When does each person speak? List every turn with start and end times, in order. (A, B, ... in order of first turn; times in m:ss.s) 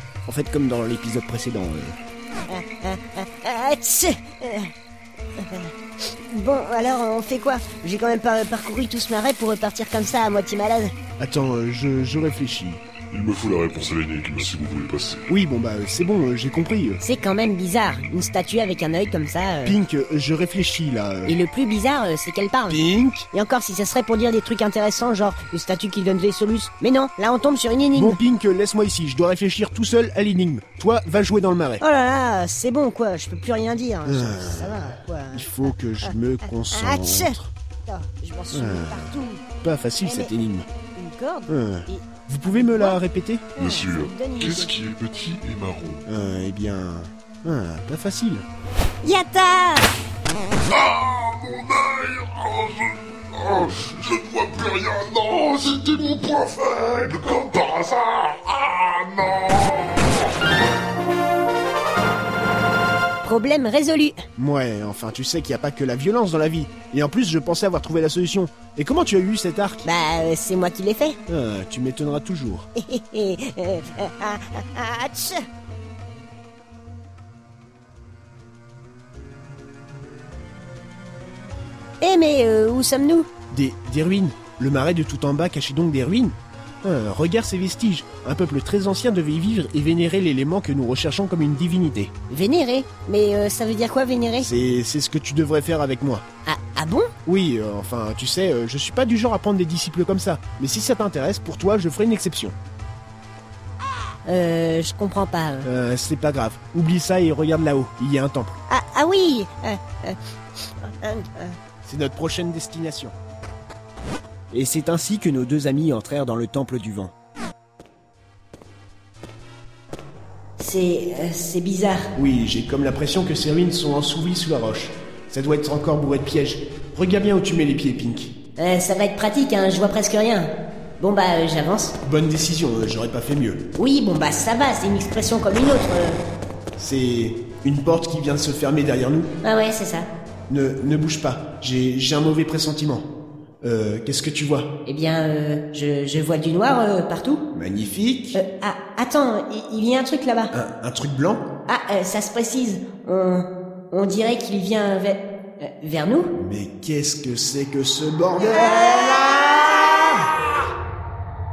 0:00.2-0:02.0 A
0:02.5-0:04.7 B
0:05.4-0:05.7 B
0:06.3-0:10.9 B
0:11.2-0:12.8 A
0:13.1-0:15.3 C
0:15.3-0:17.0 A
0:17.0-0:19.8 B
0:19.6-0:21.4 A
0:21.2-0:22.8 B
0:22.7-0:23.3 A
0:23.3-0:28.2 B
0:27.9-0:31.8 A
0:31.8-0:36.1 B
0:34.0-0:37.5 A
0:36.7-0:37.3 B
0:37.9-0:39.4 B
0:38.5-0:39.1 A
0:39.6-0:40.7 A
0:40.0-0:40.3 B
0:41.0-0:43.0 B
0:41.5-0:43.5 A
0:43.6-0:44.8 B
0:43.6-0:46.0 C
0:46.1-0:48.4 A
0:49.0-0:49.9 B
0:50.7-1:00.3 C
1:03.2-1:04.2 B
1:04.4-1:09.9 A
1:09.8-1:11.2 B
1:11.3-1:12.7 A
1:12.8-1:15.4 B
1:22.0-1:23.3 B
1:23.5-1:32.1 A
1:32.3-1:34.5 B
1:34.4-1:36.2 A
1:36.4-1:37.1 B
1:37.2-1:42.6 A
1:44.2-1:45.7 B
1:45.6-1:48.6 A
1:48.7-1:50.2 B
1:50.8-1:51.6 B
1:51.8-1:53.1 A
1:54.5-1:57.1 A
2:00.6-2:02.1 B
2:02.1-2:08.3 A
2:08.6-2:11.9 B
2:12.0-2:13.6 A
2:13.8-2:16.2 B
2:16.8-2:19.3 A
2:19.4-2:20.1 B
2:20.5-2:23.0 A
2:23.6-2:24.7 A
2:24.8-2:27.4 B
2:27.5-2:28.4 A
2:28.3-2:30.5 B
2:30.5-2:31.4 A
2:31.7-2:36.3 B
2:36.4-2:40.2 A
2:38.4-2:39.3 B